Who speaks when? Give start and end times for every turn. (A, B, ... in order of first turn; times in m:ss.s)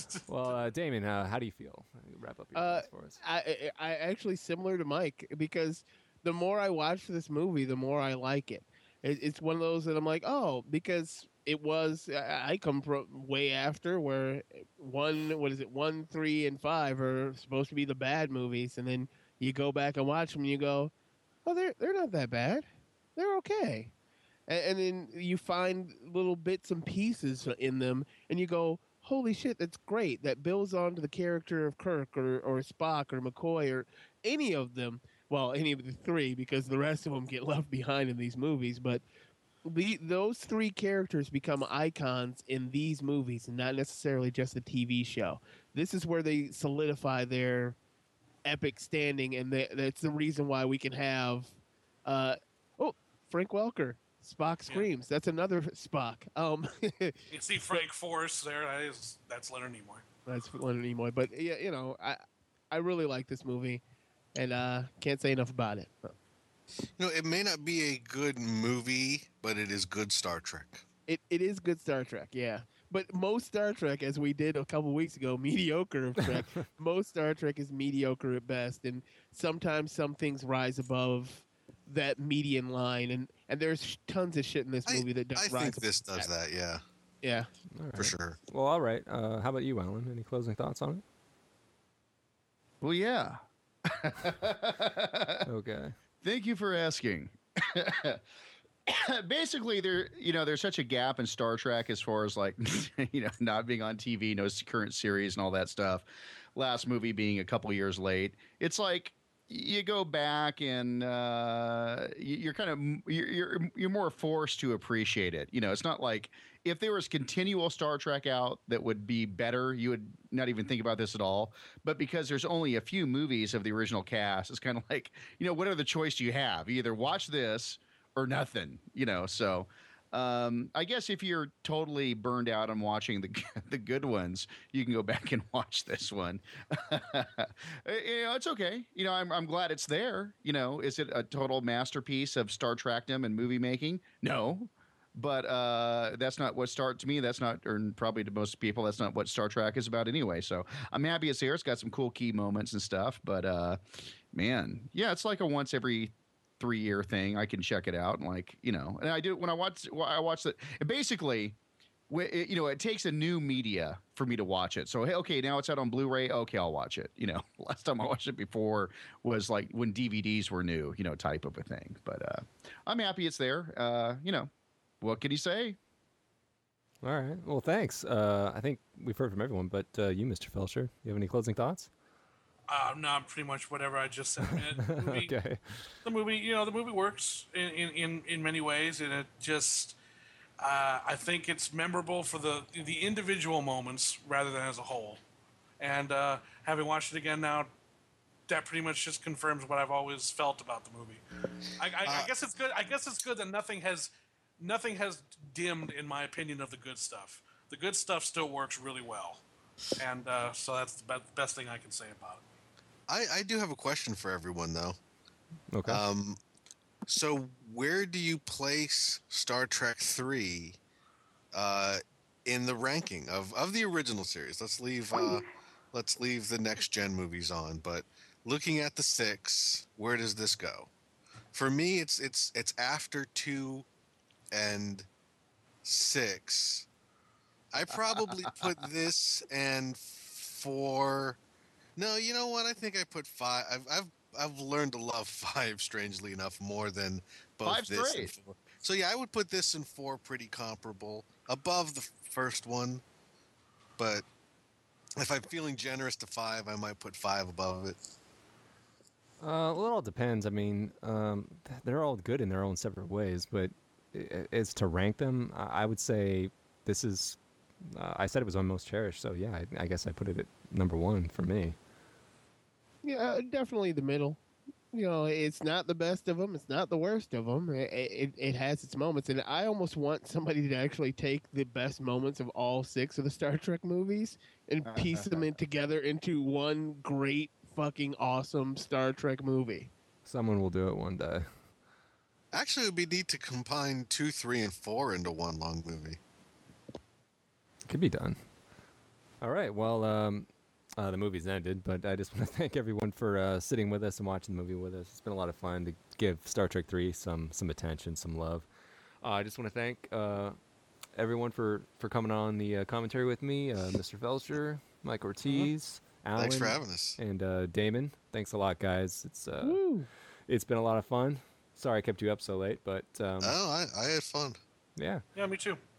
0:00.3-0:03.2 A
0:02.5-0:20.9 B
0:21.4-0:23.9 B
0:24.5-0:39.0 B
0:39.6-0:47.8 B
0:48.4-0:57.8 B
0:57.3-1:00.0 C
1:00.3-1:03.8 B
1:04.3-1:06.1 B
1:07.0-1:10.8 D
1:11.1-1:26.3 B
1:24.8-1:26.8 D
1:27.2-1:27.5 B
1:27.8-1:31.0 A
1:28.0-1:28.4 D
1:32.8-1:35.5 E
1:35.4-1:35.9 A
1:36.2-1:38.2 E
1:38.8-2:41.6 E
2:42.1-2:54.5 E
2:55.0-2:55.8 E
2:57.0-3:01.9 A
3:02.7-3:05.3 C
3:04.5-3:05.9 A
3:06.0-3:10.0 C
3:10.6-3:15.2 C
3:15.8-3:17.7 C
3:18.5-3:21.2 C
3:21.8-3:29.4 C
3:22.0-3:22.3 D
3:30.0-3:32.4 C
3:33.1-3:35.0 D
3:35.7-3:36.0 A
3:35.9-3:36.4 D
3:37.1-3:40.8 D
3:41.5-3:50.9 D
3:51.5-3:53.8 D
3:54.5-3:55.1 D
3:55.8-3:56.9 D
3:57.7-4:01.4 D
3:58.4-3:58.7 A
4:02.0-4:13.0 D
4:07.6-4:08.3 E
4:14.0-4:14.2 D
4:15.2-4:18.0 D
4:19.4-4:27.4 A
4:27.9-4:31.8 A
4:33.0-4:34.4 B
4:34.9-4:49.9 B
4:44.8-4:45.5 E
4:50.2-4:51.5 A
4:52.5-4:56.2 D
4:57.9-4:58.4 A
4:59.4-5:08.7 A
5:09.2-5:10.6 A
5:11.2-5:19.8 A
5:15.4-5:15.7 D
5:16.4-5:17.2 D
5:19.6-5:20.1 B
5:20.5-5:23.6 A
5:23.4-5:24.6 D
5:25.0-5:25.2 A
5:25.4-5:25.8 C